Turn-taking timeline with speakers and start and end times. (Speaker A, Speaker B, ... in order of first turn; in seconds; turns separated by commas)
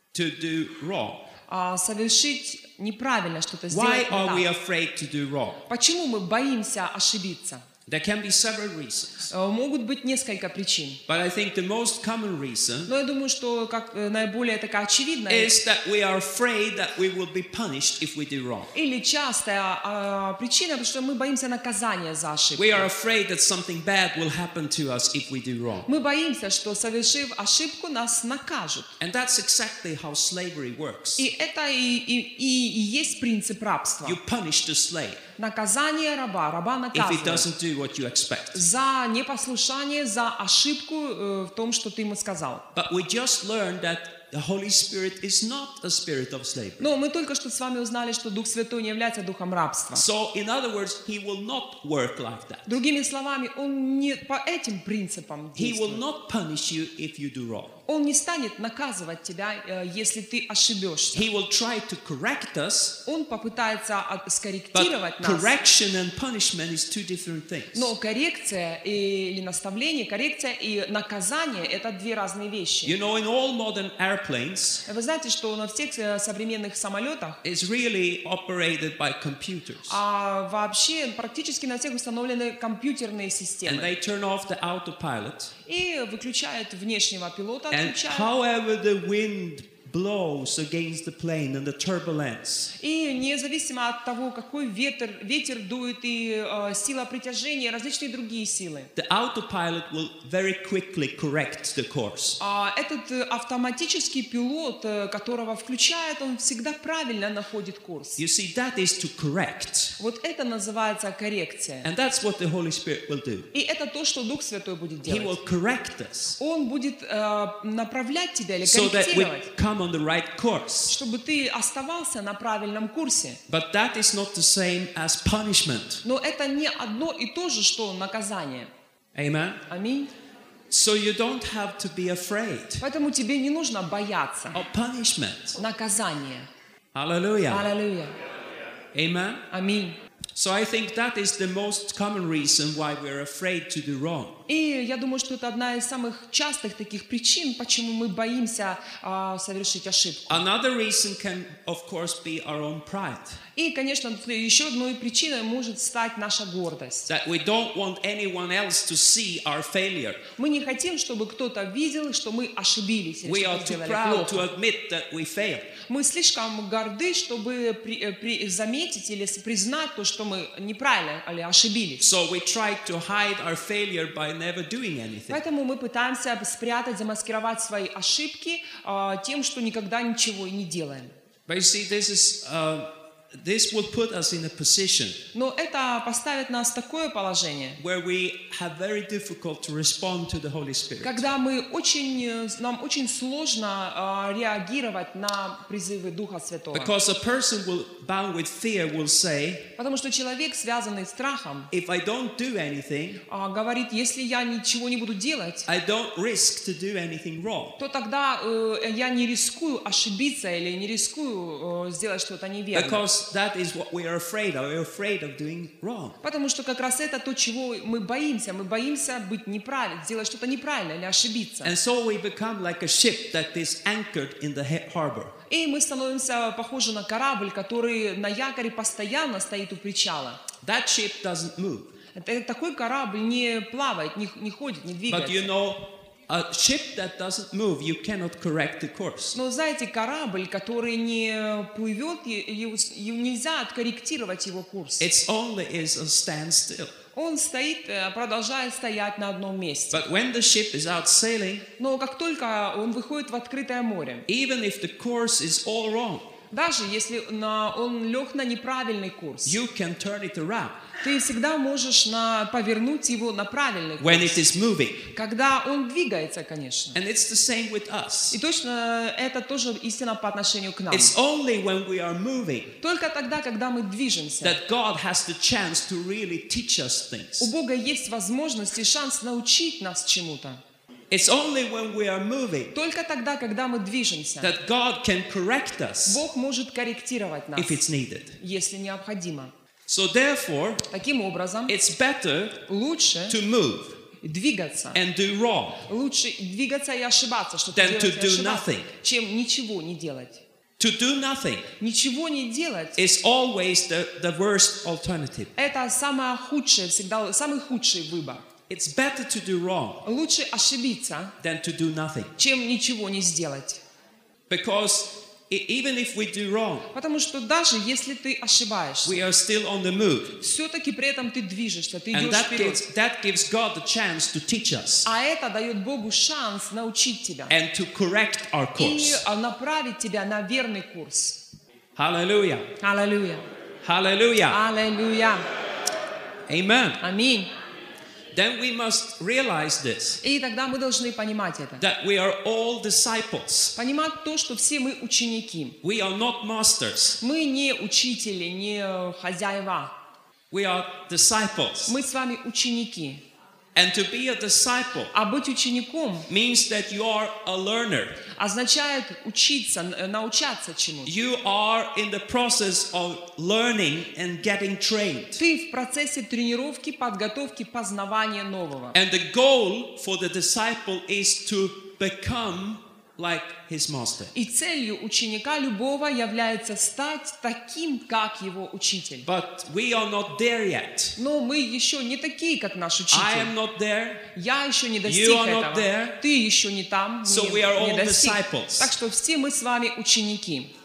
Speaker A: 0.1-1.2, Speaker B: 1.5-4.5, Speaker A: 3.7-5.6, Speaker B: 5.7-7.6, Speaker A: 7.9-9.3, Speaker B: 9.3-11.0, Speaker A: 11.1-12.9, Speaker B: 12.9-15.6, Speaker A: 15.3-18.7, Speaker B: 18.7-22.9, Speaker A: 22.6-25.9, Speaker B: 25.9-29.0, Speaker A: 29.0-31.3, Speaker B: 31.2-34.2, Speaker A: 34.0-35.2, Speaker B: 35.4-37.5, Speaker A: 36.9-38.6, Speaker B: 38.5-42.7, Speaker A: 42.7-46.9, Speaker B: 46.8-50.0, Speaker A: 49.9-52.8, Speaker B: 52.6-56.0, Speaker A: 55.5-57.8, Speaker B: 57.9-61.3, Speaker A: 61.1-63.0, Speaker B: 63.0-65.5, Speaker A: 64.7-67.9, Speaker B: 67.7-73.0, Speaker A: 72.8-74.8, Speaker B: 74.8-77.4, Speaker A: 77.4-80.0, Speaker B: 79.9-83.9, Speaker A: 83.7-85.5, Speaker B: 85.6-88.3, Speaker A: 87.7-92.7, Speaker B: 92.7-98.9, Speaker A: 98.9-102.4, Speaker B: 102.4-108.2, Speaker A: 108.2-109.9, Speaker B: 110.0-111.9, Speaker A: 111.8-113.5, Speaker B: 113.5-115.4, Speaker A: 115.0-116.4, Speaker B: 116.4-119.5, Speaker A: 118.6-120.9, Speaker B: 120.9-123.4, Speaker A: 123.5-126.0, Speaker B: 126.0-128.7, Speaker A: 129.1-129.6, Speaker B: 129.7-130.1, Speaker A: 130.7-132.8, Speaker B: 132.8-134.6, Speaker A: 134.5-135.6, Speaker B: 135.6-136.5, Speaker A: 136.9-137.7, Speaker B: 137.5-138.1, Speaker A: 138.9-139.4, Speaker B: 139.5-140.0, Speaker A: 140.3-144.4, Speaker B: 144.5-150.4, Speaker A: 150.3-153.4, Speaker B: 153.5-157.1, Speaker A: 157.1-160.2, Speaker B: 160.3-164.5, Speaker A: 163.2-165.7, Speaker B: 165.8-172.0, Speaker A: 172.0-175.4, Speaker B: 175.3-181.1, Speaker A: 181.5-185.2, Speaker B: 185.3-187.8, Speaker A: 187.8-191.3, Speaker B: 191.0-196.9, Speaker A: 196.7-199.7, Speaker B: 199.8-201.7, Speaker A: 201.7-203.2, Speaker B: 203.3-205.7, Speaker A: 205.7-207.8, Speaker B: 207.8-213.1, Speaker A: 212.7-216.2, Speaker B: 216.2-221.7, Speaker A: 221.6-225.3, Speaker B: 225.5-230.4, Speaker A: 230.6-231.9, Speaker B: 232.1-235.5, Speaker A: 235.1-239.4, Speaker B: 239.3-245.1, Speaker A: 245.0-246.9, Speaker B: 247.1-250.0, Speaker A: 249.9-251.7, Speaker B: 251.8-254.2, Speaker A: 254.3-256.3, Speaker B: 256.5-259.6, Speaker A: 259.4-260.9, Speaker B: 261.0-264.4, Speaker A: 264.0-265.1, Speaker B: 265.1-267.0, Speaker A: 266.9-268.4, Speaker B: 268.3-271.1, Speaker A: 270.9-272.7, Speaker B: 272.8-274.6, Speaker A: 274.4-277.5, Speaker B: 277.4-280.6, Speaker A: 281.1-282.7, Speaker B: 282.7-284.5, Speaker A: 284.4-286.2, Speaker B: 286.1-287.8, Speaker A: 287.6-288.4, Speaker B: 288.4-289.5, Speaker A: 289.9-290.9, Speaker B: 290.9-291.7, Speaker A: 291.7-292.6, Speaker B: 292.7-293.4, Speaker A: 293.3-294.0, Speaker B: 294.2-295.0, Speaker A: 294.9-295.8, Speaker B: 295.8-300.4, Speaker A: 297.7-298.9, Speaker A: 300.8-301.7, Speaker B: 301.8-303.0, Speaker A: 303.0-305.5, Speaker B: 305.6-308.4, Speaker A: 308.7-310.0, Speaker B: 310.0-311.3, Speaker A: 311.4-312.3, Speaker B: 312.4-313.8, Speaker A: 314.5-316.9, Speaker B: 316.9-319.2, Speaker A: 319.0-320.4, Speaker B: 320.4-322.8, Speaker A: 322.1-325.1, Speaker B: 325.0-327.5, Speaker A: 327.5-329.2, Speaker B: 328.8-331.4, Speaker A: 331.9-332.7, Speaker B: 332.8-333.4, Speaker A: 333.8-334.6, Speaker B: 334.5-335.4, Speaker A: 336.5-337.0, Speaker B: 337.0-337.5, Speaker A: 338.3-340.2, Speaker B: 340.2-341.8, Speaker A: 341.8-343.7, Speaker B: 343.7-345.8, Speaker A: 345.8-347.2, Speaker B: 347.2-349.9, Speaker A: 350.5-351.9, Speaker B: 351.9-353.2, Speaker A: 353.7-355.1, Speaker B: 355.1-356.3, Speaker A: 356.3-358.2, Speaker B: 358.3-361.1, Speaker A: 361.0-365.4, Speaker B: 365.4-368.9, Speaker A: 368.9-374.3, Speaker B: 374.3-379.3, Speaker A: 379.2-381.2, Speaker B: 381.2-383.5, Speaker A: 383.1-384.2, Speaker B: 384.3-390.7, Speaker A: 385.0-386.2, Speaker A: 387.2-388.9